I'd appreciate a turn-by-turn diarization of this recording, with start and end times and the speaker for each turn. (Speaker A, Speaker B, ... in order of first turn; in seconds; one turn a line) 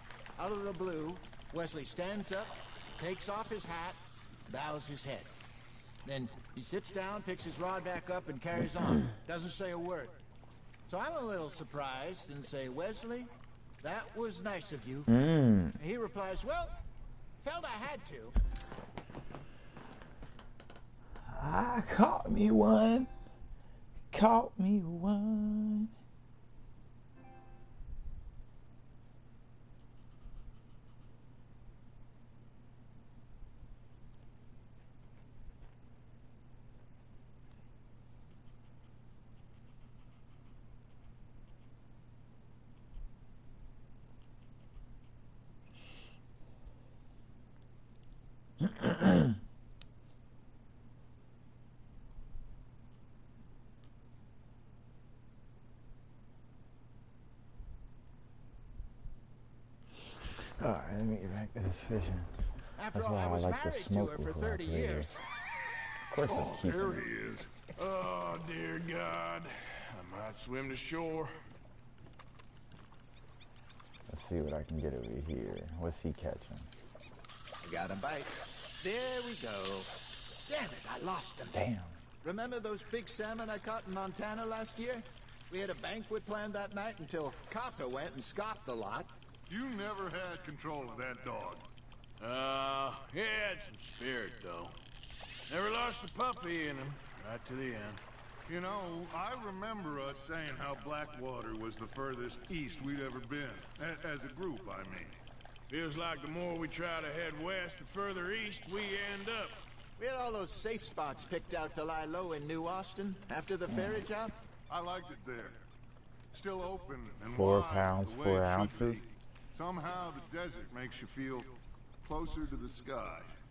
Speaker A: 0.4-5.3
Speaker A: 6.0-10.1
Speaker A: 10.9-13.3
Speaker A: 13.8-15.1
Speaker B: 15.1-15.8
Speaker A: 15.8-16.8
Speaker A: 17.4-18.3
Speaker B: 21.2-23.1
Speaker B: 24.1-25.9
Speaker B: 48.7-49.1
Speaker B: 60.6-62.3
Speaker A: 62.8-65.1
Speaker B: 62.9-65.1
Speaker B: 66.1-67.1
Speaker C: 66.2-67.5
Speaker D: 67.8-71.3
Speaker B: 74.1-76.7
Speaker A: 77.6-79.9
Speaker A: 80.5-89.1
Speaker B: 81.5-82.0
Speaker C: 89.5-91.7
Speaker D: 92.2-94.8
Speaker D: 95.5-98.0
Speaker C: 98.5-105.2
Speaker D: 105.7-109.6
Speaker A: 110.0-114.3
Speaker C: 114.7-115.6
Speaker C: 116.3-123.3
Speaker B: 117.3-119.0